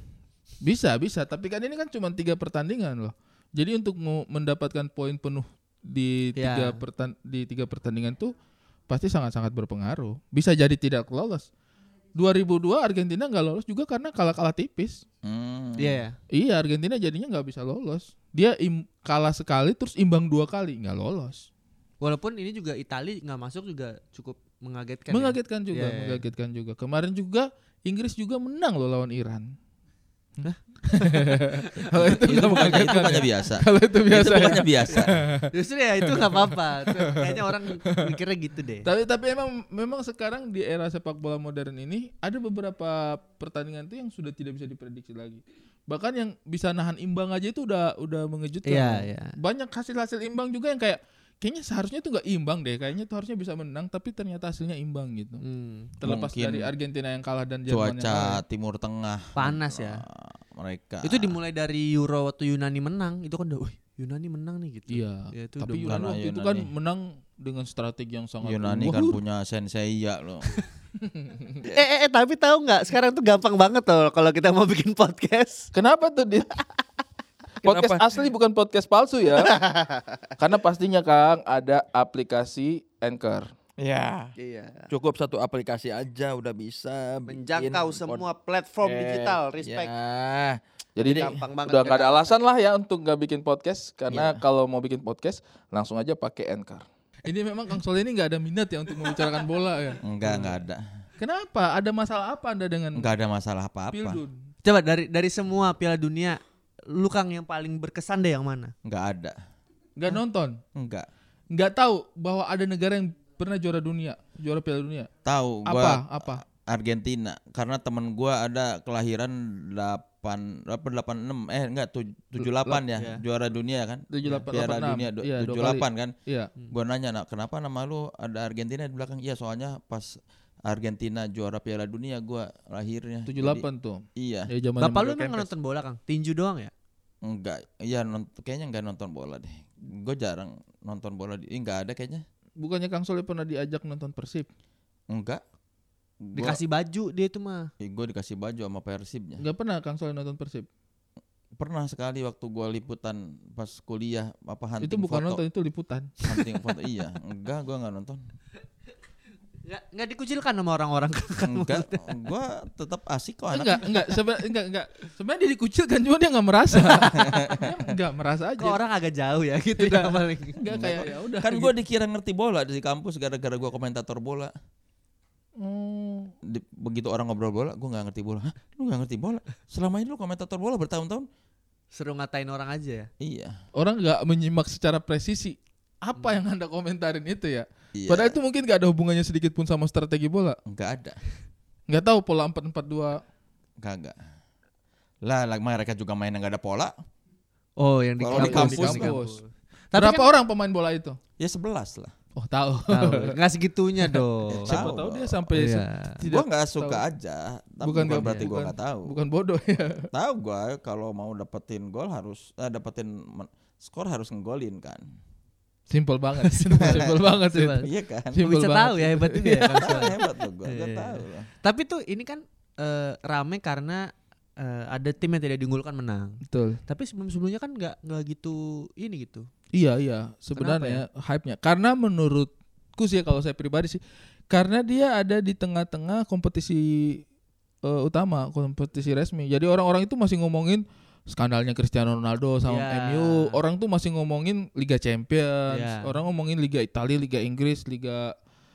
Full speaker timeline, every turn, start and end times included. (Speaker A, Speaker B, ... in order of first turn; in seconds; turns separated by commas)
Speaker A: 0.6-8.3, Speaker B: 6.4-6.8, Speaker A: 8.9-11.5, Speaker A: 12.2-15.0, Speaker C: 15.2-16.0, Speaker B: 15.8-16.2, Speaker A: 16.3-21.5, Speaker B: 22.0-26.2, Speaker A: 25.1-29.4, Speaker A: 30.4-35.5, Speaker B: 30.4-33.1, Speaker C: 32.2-35.1, Speaker B: 34.9-38.9, Speaker A: 36.2-37.1, Speaker A: 38.9-55.4, Speaker B: 48.6-49.3, Speaker B: 55.4-55.9, Speaker A: 56.0-58.4, Speaker C: 56.0-56.7, Speaker C: 57.7-61.4, Speaker B: 59.4-60.0, Speaker B: 61.0-66.1, Speaker A: 64.9-69.2, Speaker C: 65.9-66.7, Speaker C: 68.4-70.5, Speaker A: 71.0-71.6, Speaker B: 71.7-75.7, Speaker A: 75.7-76.6, Speaker C: 77.6-78.0, Speaker A: 77.6-79.5, Speaker B: 79.5-80.2, Speaker A: 80.4-83.5, Speaker C: 83.8-84.3, Speaker B: 84.4-84.9, Speaker C: 84.9-88.2, Speaker B: 87.3-89.9, Speaker C: 88.8-90.6, Speaker A: 91.0-100.5, Speaker B: 91.0-92.3, Speaker C: 94.1-94.4, Speaker C: 100.0-100.8, Speaker B: 100.2-100.5, Speaker A: 101.2-103.1, Speaker C: 103.0-104.2, Speaker A: 103.9-104.4, Speaker B: 104.6-106.4, Speaker B: 106.9-108.7, Speaker C: 108.8-109.3, Speaker A: 110.0-110.6, Speaker C: 110.8-111.1, Speaker A: 111.5-115.1, Speaker C: 115.2-126.1, Speaker A: 115.7-116.4, Speaker A: 122.4-122.8, Speaker B: 123.0-123.2, Speaker A: 124.1-126.5, Speaker C: 126.7-130.1, Speaker C: 130.7-133.7, Speaker A: 133.3-135.5, Speaker C: 134.2-134.5, Speaker B: 134.8-136.7, Speaker C: 137.2-142.2, Speaker A: 142.6-144.5, Speaker C: 145.1-145.4, Speaker C: 146.2-146.6, Speaker B: 146.4-147.7, Speaker C: 147.8-149.4, Speaker A: 149.4-150.7, Speaker C: 151.6-155.4, Speaker A: 154.8-156.4, Speaker C: 156.2-158.2, Speaker B: 159.7-162.1, Speaker C: 161.4-164.0, Speaker A: 163.5-168.8, Speaker C: 167.2-167.7, Speaker B: 168.6-170.6, Speaker A: 169.8-171.7, Speaker C: 170.7-174.5, Speaker A: 175.6-176.3, Speaker C: 176.4-181.3, Speaker B: 181.9-183.1, Speaker C: 183.2-183.5, Speaker A: 183.8-190.6, Speaker C: 187.9-188.4, Speaker C: 190.7-191.2, Speaker A: 191.9-193.2, Speaker C: 193.8-194.2, Speaker C: 195.3-196.9, Speaker B: 197.8-200.3, Speaker C: 198.2-199.1, Speaker A: 198.3-199.4, Speaker A: 200.0-201.2, Speaker C: 201.4-202.1, Speaker A: 202.4-203.4, Speaker B: 202.9-204.9, Speaker A: 204.0-207.0, Speaker C: 204.5-205.4, Speaker B: 205.5-206.2, Speaker C: 206.3-209.1, Speaker A: 207.8-210.1, Speaker B: 208.2-208.5, Speaker C: 210.1-215.0, Speaker A: 215.9-220.2, Speaker B: 216.4-224.1, Speaker C: 216.8-217.1, Speaker C: 217.8-218.4, Speaker C: 219.7-221.5, Speaker B: 224.6-229.5, Speaker A: 226.5-226.8, Speaker A: 229.7-234.0, Speaker B: 230.6-231.0, Speaker A: 234.5-237.2, Speaker A: 237.8-248.3, Speaker B: 242.7-243.6, Speaker B: 245.7-246.1